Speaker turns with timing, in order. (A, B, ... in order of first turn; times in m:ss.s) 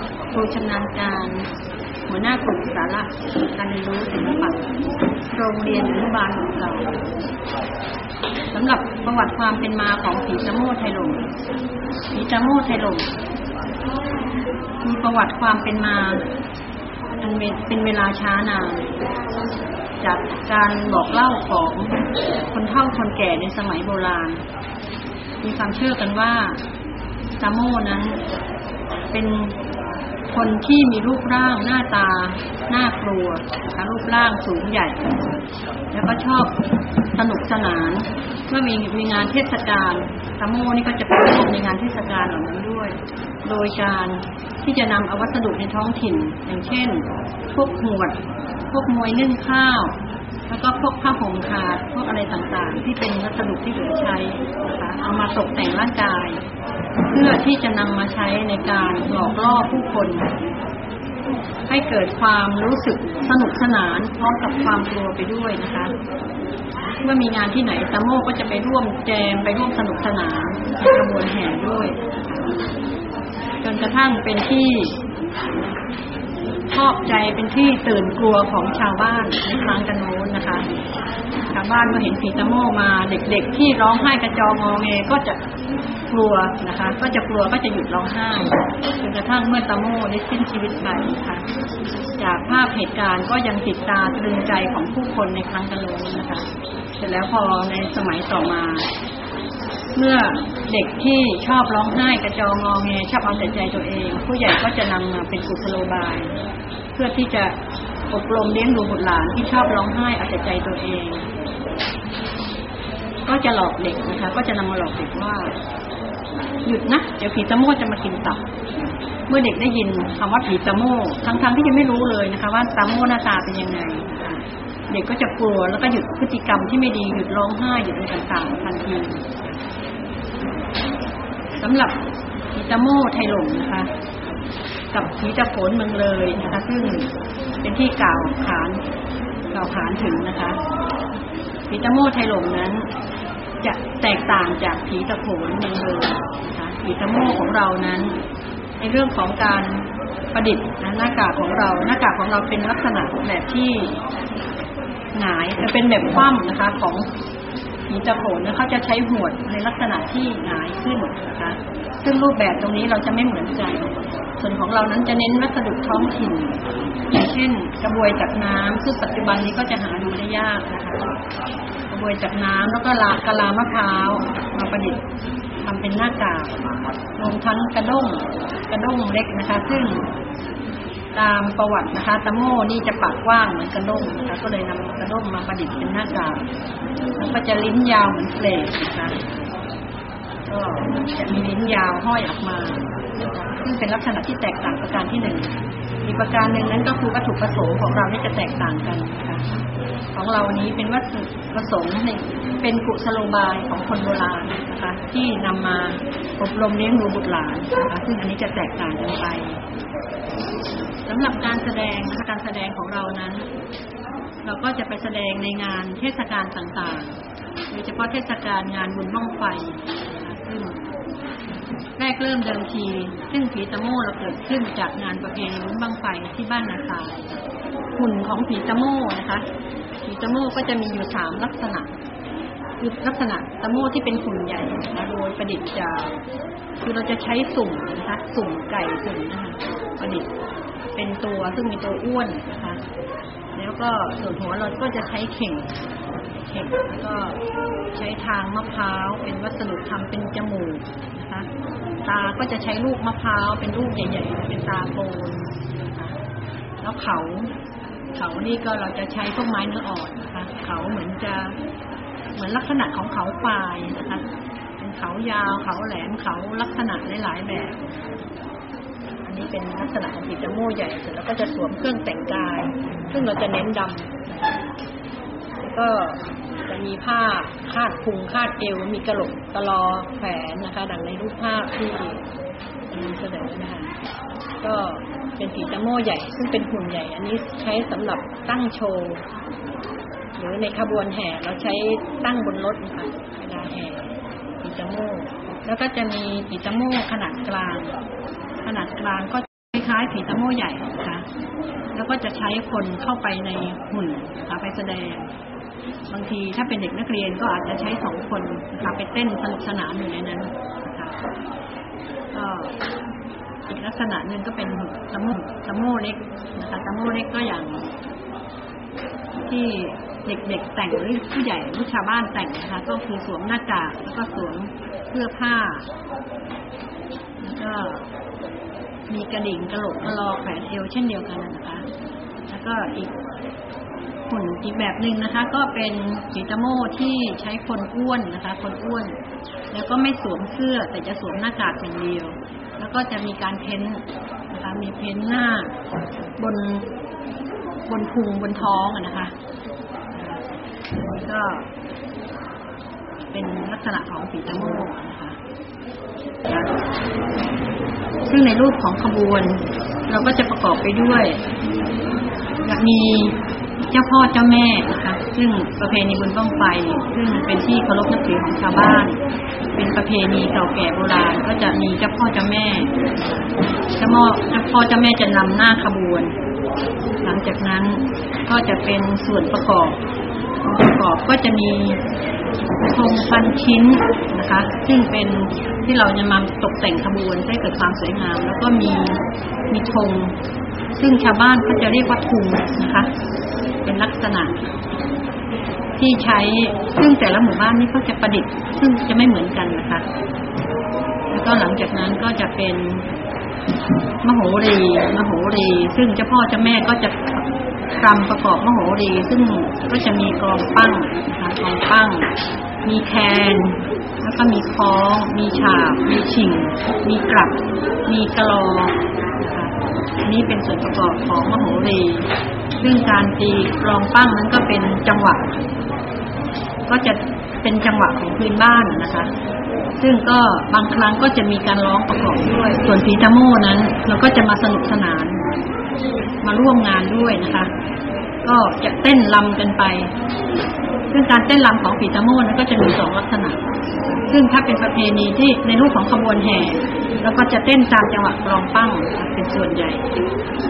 0:00.3-0:01.5 A
0:02.1-0:04.7 A
0:05.3-0:07.0 A
0:08.5-0:11.3 A
0:12.1-0:13.1 A
0:14.8-0:16.3 A
0:17.2-0:18.9 A
0:20.0-0:24.4 A
0:25.4-0:26.6 A
0:27.4-0:28.2 A
0:29.1-0:29.6 A
0:30.3-0:35.0 A
0:35.9-0:36.6 A
0:37.1-0:56.4 A
0:57.1-1:00.3 A
1:01.7-1:05.9 A
1:07.0-1:12.5 A
1:13.6-1:15.0 A
1:16.7-1:20.7 A
1:21.5-1:25.4 A
1:26.1-1:31.4 A
1:32.2-1:36.5 A
1:37.0-1:38.9 A
1:40.0-1:46.4 A
1:46.9-1:47.6 A
1:48.1-1:51.3 A
1:53.3-1:55.6 A
1:56.6-2:09.3 A
2:11.6-2:12.0 A
2:12.5-2:13.9 A
2:14.9-2:18.8 A
2:19.5-2:20.6 A
2:21.7-2:22.9 A
2:23.6-2:28.2 A
2:28.8-2:34.0 A
2:35.1-2:37.1 A
2:37.9-2:51.1 A
2:51.9-2:55.0 A
2:55.6-2:56.6 A
2:57.2-3:00.1 A
3:01.1-3:06.4 A
3:07.2-3:09.2 A
3:10.5-3:19.4 A
3:20.1-3:29.6 A
3:31.1-3:33.5 A
3:34.4-3:40.9 A
3:42.0-3:47.4 A
3:48.0-3:49.5 A
3:50.0-3:52.0 A
3:52.8-3:56.2 A
3:56.8-4:00.3 A
4:01.0-4:02.8 A
4:03.6-4:07.4 A
4:07.9-4:11.5 A
4:12.0-4:16.2 A
4:16.8-4:17.5 A
4:18.2-4:21.6 A
4:22.4-4:24.3 A
4:24.8-4:27.9 A
4:29.2-4:34.5 A
4:35.6-4:42.3 A
4:42.9-4:44.0 A
4:44.6-4:49.3 A
4:50.4-4:58.0 A
4:58.6-5:01.3 A
5:01.9-5:05.3 A
5:06.1-5:11.2 A
5:12.3-5:12.8 A
5:13.7-5:17.9 A
5:19.5-5:25.9 A
5:27.4-5:28.1 A
5:29.1-5:31.9 A
5:32.5-5:33.2 A
5:34.3-5:39.2 A
5:39.7-5:45.8 A
5:46.4-5:46.9 A
5:47.9-5:49.4 A
5:50.1-5:51.7 A
5:53.3-5:55.4 A
5:58.3-6:01.4 A
6:02.6-6:09.2 A
6:09.8-6:13.0 A
6:14.0-6:16.4 A
6:17.2-6:20.0 A
6:20.6-6:22.0 A
6:22.8-6:30.4 A
6:30.9-6:33.1 A
6:33.8-6:34.6 A
6:36.0-6:40.0 A
6:41.3-6:43.1 A
6:44.2-6:52.3 A
6:52.8-7:05.6 A
7:06.9-7:09.3 A
7:10.0-7:15.4 A
7:16.4-7:17.7 A
7:18.4-7:20.1 A
7:21.1-7:23.6 A
7:24.3-7:30.1 A